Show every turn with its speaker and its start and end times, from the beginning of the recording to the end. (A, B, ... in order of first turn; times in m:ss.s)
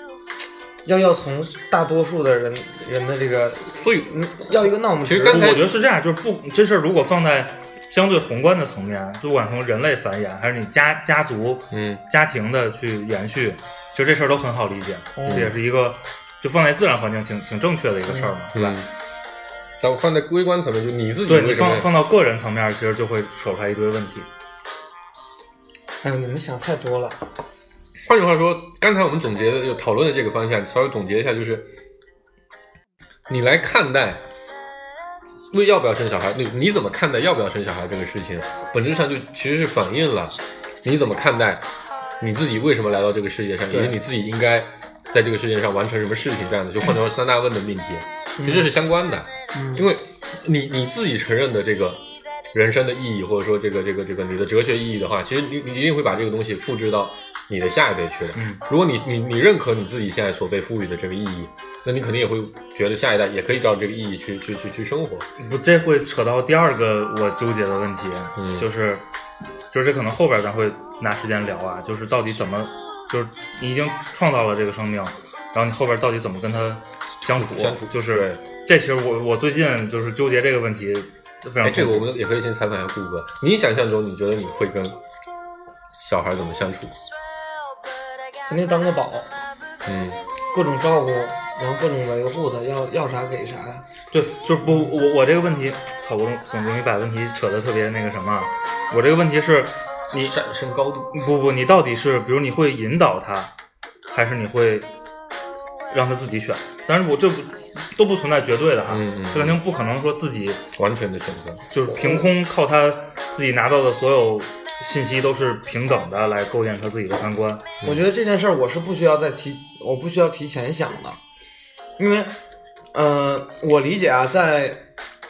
0:00.8-0:05.5 A
0:03.7-0:04.1 B
0:05.0-0:05.7 B
0:05.3-0:18.8 C
0:11.7-0:12.0 B
0:15.2-0:15.6 B
0:18.1-0:18.3 A
0:18.5-0:18.9 B
0:19.8-0:21.9 B
0:21.3-0:24.3 C
0:26.0-0:27.2 A
0:28.0-0:31.7 B
0:33.3-0:34.2 B
0:35.5-0:41.6 B
0:42.2-0:52.0 B
0:48.4-0:48.7 A
0:49.5-0:49.8 A
0:52.5-1:05.3 B
0:58.4-0:58.6 C
1:05.4-1:09.0 C
1:08.4-1:08.7 B
1:09.7-1:22.1 C
1:17.2-1:18.4 B
1:21.6-1:25.0 B
1:26.0-1:27.0 B
1:28.5-1:29.3 A
1:29.8-1:30.2 B
1:30.5-1:33.8 A
1:34.1-1:40.3 C
1:40.1-1:41.2 B
1:41.1-1:43.5 C
1:44.1-1:44.9 C
1:45.9-1:50.6 C
1:48.8-1:49.6 B
1:50.8-1:51.7 B
1:51.7-1:57.7 C
1:51.9-1:52.2 A
1:57.8-2:01.2 A
2:02.0-2:02.4 A
2:02.9-2:04.8 A